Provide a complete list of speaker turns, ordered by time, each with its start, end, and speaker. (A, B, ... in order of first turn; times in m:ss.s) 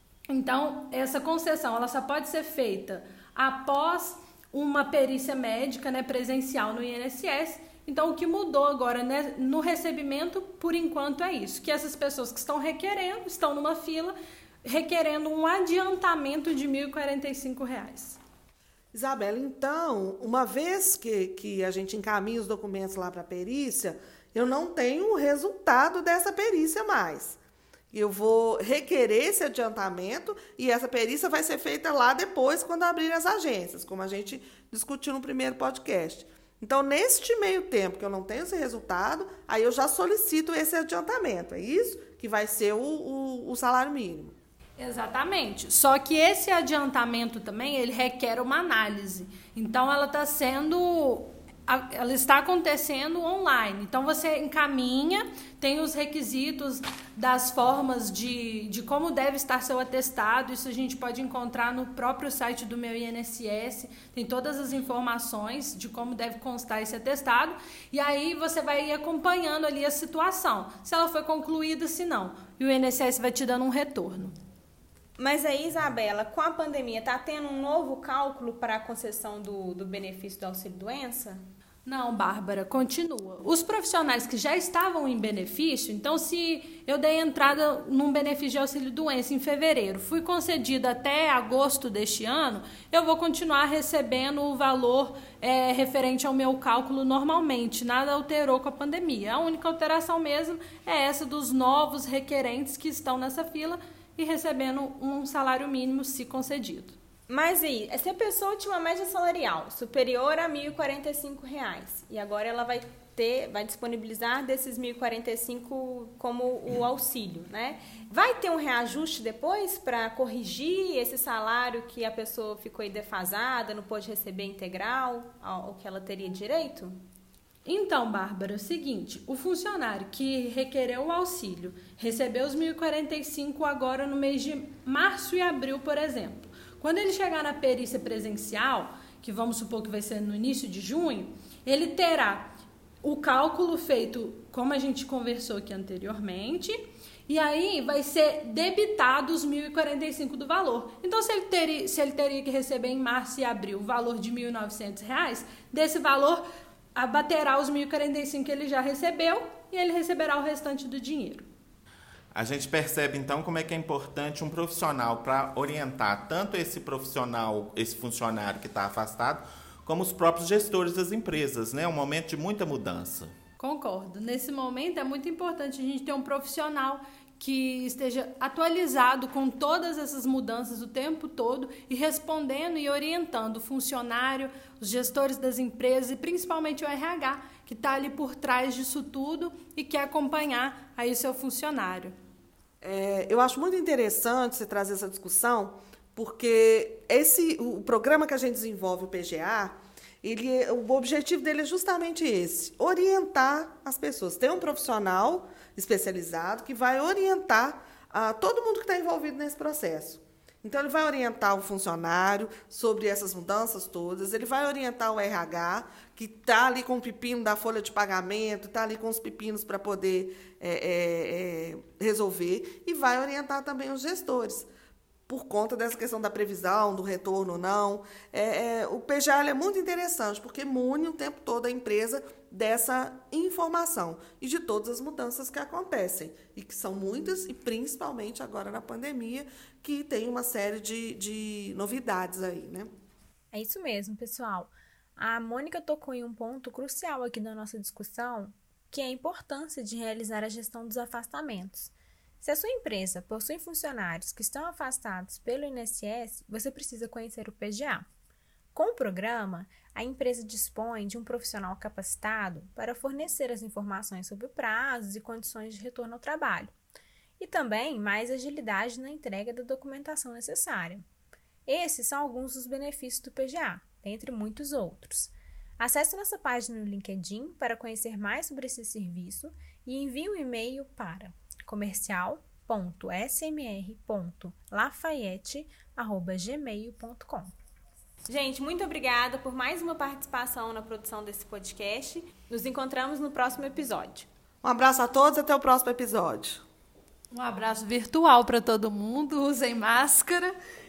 0:00.3-0:18.2 A
0:18.9-0:27.4 B
0:27.9-0:44.4 B
0:44.8-1:14.3 A
1:15.2-1:21.4 C
1:21.8-1:47.0 A
1:47.3-2:06.9 C
2:07.7-2:22.5 A
2:23.0-2:36.4 A
2:37.0-2:41.5 A
2:42.3-2:53.3 D
2:53.6-3:12.1 A
3:12.8-3:44.7 B
3:45.3-4:02.9 B
4:03.5-4:18.1 E
4:18.8-4:26.7 E
4:27.4-4:31.0 E
4:31.7-4:47.5 E
4:48.3-4:54.3 C
4:54.6-4:56.6 B
4:57.3-5:00.5 A